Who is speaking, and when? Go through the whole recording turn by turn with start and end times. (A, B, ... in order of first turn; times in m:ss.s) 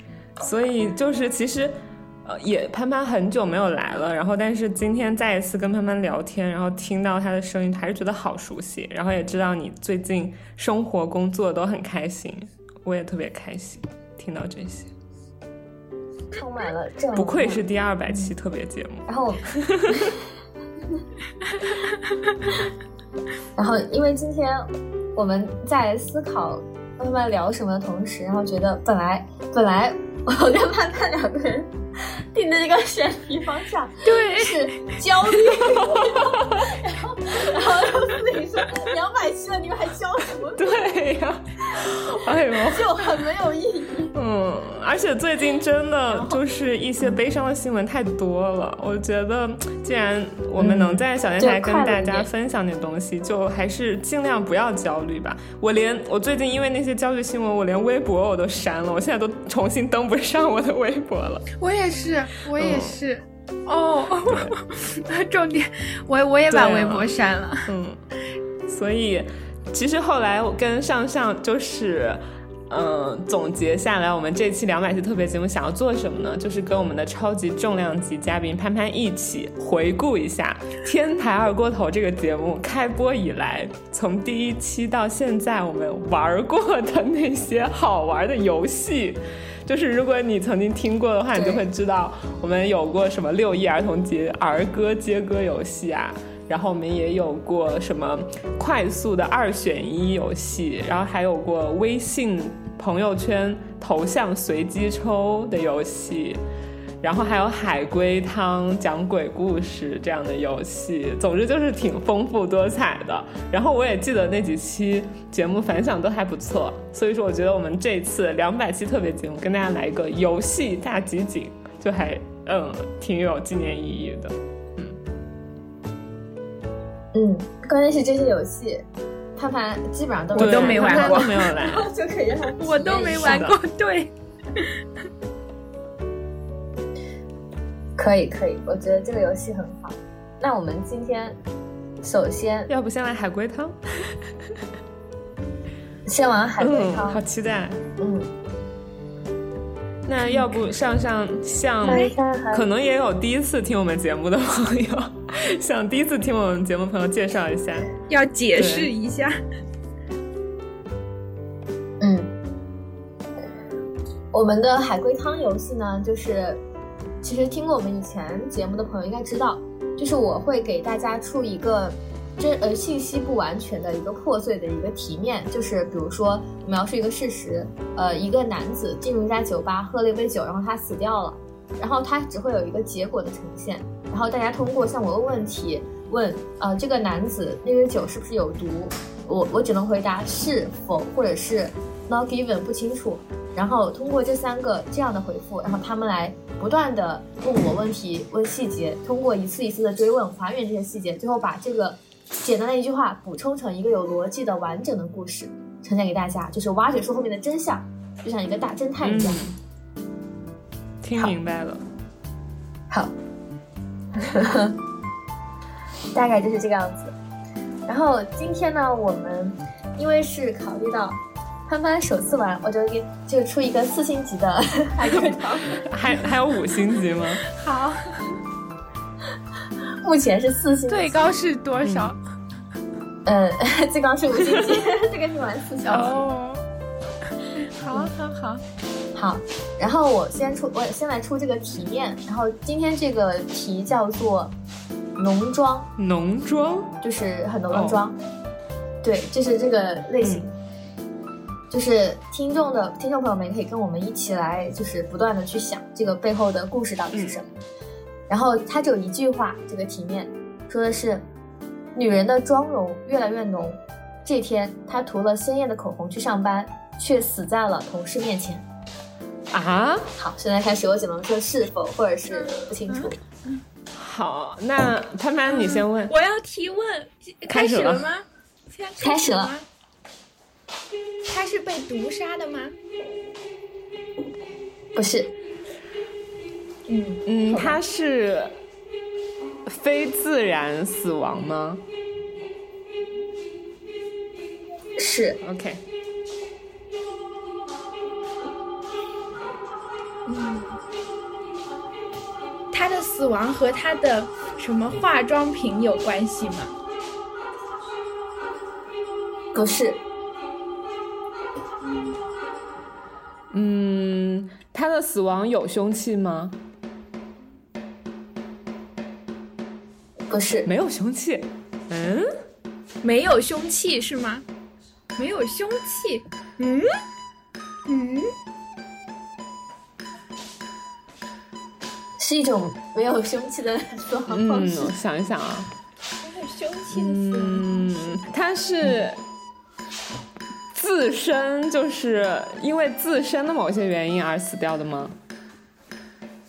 0:00.4-0:14.9 A
0:16.3-0:18.3 B
0:17.2-0:20.1 A
0:19.1-0:20.1 B
0:23.6-0:31.7 B
0:32.3-0:40.8 B
0:34.0-0:35.0 C
0:40.6-0:43.0 A
0:42.6-0:44.1 B
0:44.1-1:01.5 A
0:46.1-0:46.4 B
0:50.6-0:52.3 B
1:01.6-1:07.7 C
1:02.6-1:03.0 A
1:04.2-1:04.5 A
1:06.5-1:07.1 A
1:07.6-1:08.0 A
1:08.7-1:46.4 A
1:31.3-1:31.6 B
1:47.0-2:05.0 A
2:07.1-2:08.8 B
2:09.4-2:13.5 B
2:10.3-2:11.5 C
2:10.4-2:11.9 A
2:12.6-2:14.7 C
2:13.1-2:13.6 A
2:18.0-2:21.4 B
2:22.0-2:22.7 B
2:22.7-2:23.8 A
2:26.0-2:27.2 B
2:26.6-2:27.8 A
2:28.0-2:28.3 B
2:30.0-2:37.9 A
2:31.8-2:32.6 B
2:31.8-2:32.1 C
2:38.1-2:39.4 C
2:38.5-2:38.9 A
2:42.0-2:42.3 B
2:44.3-2:46.6 B
2:47.2-3:29.4 B
3:29.0-3:29.6 A
3:31.0-3:31.8 A
3:34.2-3:34.8 B
3:36.1-3:37.1 B
3:37.9-3:45.8 B
3:45.1-3:47.4 A
3:47.4-3:48.3 C
3:50.0-3:51.2 B
3:50.9-3:52.2 C
3:51.8-3:52.1 A
3:53.2-3:56.2 B
3:55.8-3:56.6 C
3:57.5-3:58.6 C
3:59.1-4:04.5 B
4:05.2-4:05.9 B
4:06.0-4:06.9 A
4:07.0-4:08.2 B
4:07.7-4:08.0 A
4:09.0-4:10.5 B
4:11.7-4:17.4 B
4:17.1-4:17.4 A
4:18.3-4:21.2 B
4:21.9-4:28.6 B
4:29.5-4:30.1 A
4:30.2-4:33.1 B
4:32.3-4:33.6 C
4:33.9-4:36.1 A
4:35.5-4:39.6 C
4:37.5-4:38.1 A
4:39.0-4:39.5 B
4:41.3-4:42.7 C
4:44.9-4:45.3 B
4:46.9-4:47.8 C
4:47.2-4:48.5 A
4:49.6-4:51.8 A
4:55.0-4:55.4 B
4:55.4-4:55.8 A
5:00.2-5:00.8 C
5:02.7-5:06.7 C
5:09.5-5:10.0 B
5:11.8-5:12.2 C
5:13.5-5:16.6 A
5:20.3-5:20.7 B
5:20.6-5:22.3 A
5:23.0-5:24.4 C
5:25.2-5:26.9 C
5:27.8-5:28.3 C
5:32.2-5:34.9 B
5:34.3-5:35.7 A
5:36.2-5:38.2 C
5:36.9-5:39.2 A
5:40.7-5:45.1 A